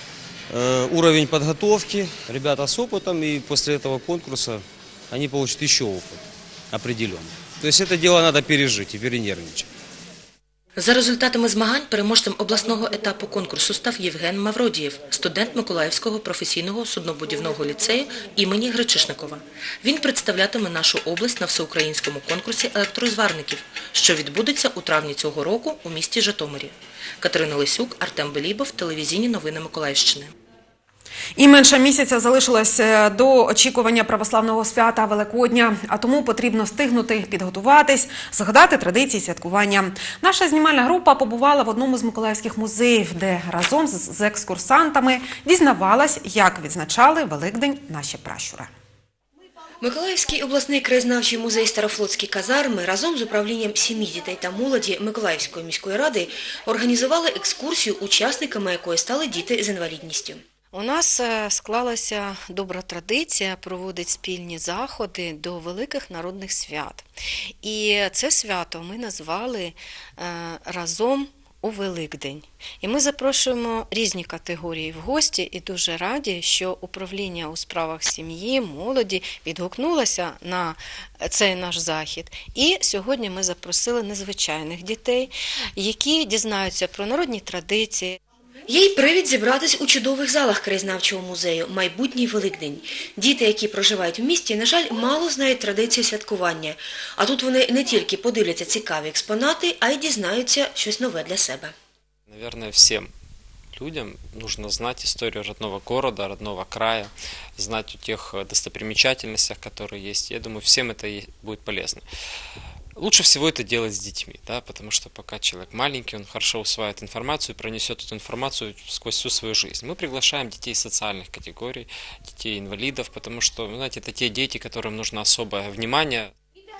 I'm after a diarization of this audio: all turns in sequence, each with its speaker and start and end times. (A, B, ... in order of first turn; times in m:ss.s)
0:00.5-0:06.2 A
0:06.7-0:09.6 A
0:10.8-0:30.3 B
0:31.4-0:48.7 C
0:49.8-1:00.4 D
1:00.7-1:07.1 E
1:07.6-1:28.2 E
1:28.7-1:41.7 D
1:44.5-1:47.1 F
1:47.6-1:52.0 F
1:53.0-2:01.9 F
2:02.4-2:02.7 F
2:03.4-2:05.5 F